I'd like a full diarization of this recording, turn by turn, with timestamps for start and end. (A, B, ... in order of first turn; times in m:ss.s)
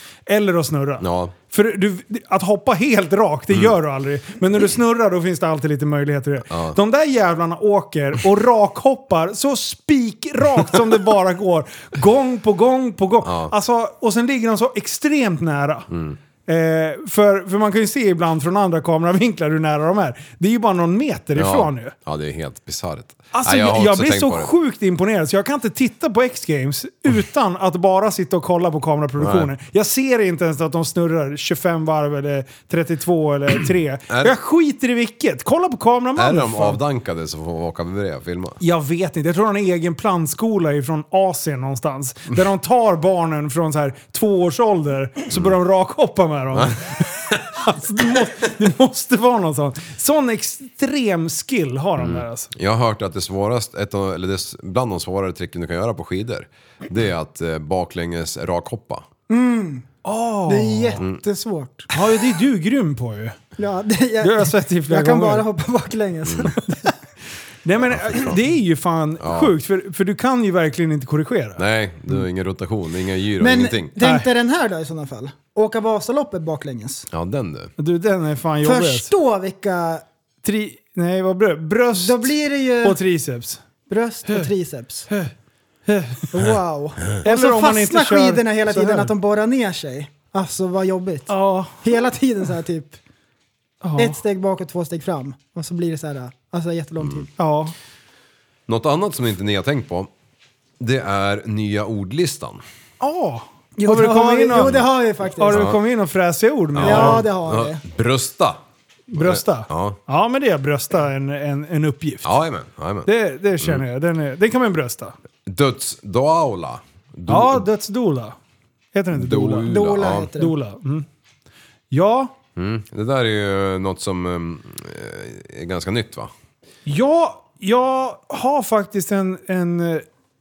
0:00.3-0:15.9 A
0:01.0-0:01.3 B
0:06.5-0:06.8 B
0:13.2-0:13.5 B
0:15.9-0:16.2 B
0:16.5-0:21.9 A
0:21.3-0:24.5 B
0:23.3-0:36.8 A
0:29.2-0:29.5 B
0:34.1-0:34.3 B
0:36.2-0:38.6 B
0:38.6-0:52.5 A
0:52.0-0:59.0 B
0:59.3-0:59.8 C
1:00.0-1:01.0 A
1:00.5-1:01.9 C
1:01.9-1:03.4 A
1:03.6-1:06.6 C
1:04.2-1:05.4 A
1:06.2-1:06.5 B
1:07.6-1:11.6 A
1:07.9-1:08.4 B
1:09.2-1:09.5 B
1:11.6-1:13.9 B
1:13.4-1:17.1 C
1:14.0-1:14.3 A
1:17.1-1:17.7 B
1:17.8-1:19.1 A
1:18.6-1:20.0 C
1:20.4-1:23.6 A
1:21.9-1:23.0 C
1:23.9-1:25.1 C
1:25.9-1:26.3 A
1:26.3-1:33.0 C
1:27.2-1:29.1 A
1:31.3-1:32.0 A
1:33.8-1:34.2 A
1:34.0-1:37.3 C
1:37.4-1:37.7 A
1:38.7-1:40.1 B
1:40.8-1:42.6 B
1:43.0-1:47.2 A
1:43.8-1:45.6 C
1:45.5-1:45.8 B
1:46.7-1:50.0 B
1:46.8-1:47.8 C
1:49.1-1:52.3 A
1:52.2-1:53.1 B
1:53.0-1:55.1 A
1:55.4-1:57.6 B
1:57.3-1:58.4 A
1:58.9-2:01.0 A
1:59.1-2:00.3 B
1:59.6-2:00.5 C
2:01.9-2:02.3 A
2:02.6-2:06.3 B
2:06.8-2:10.0 A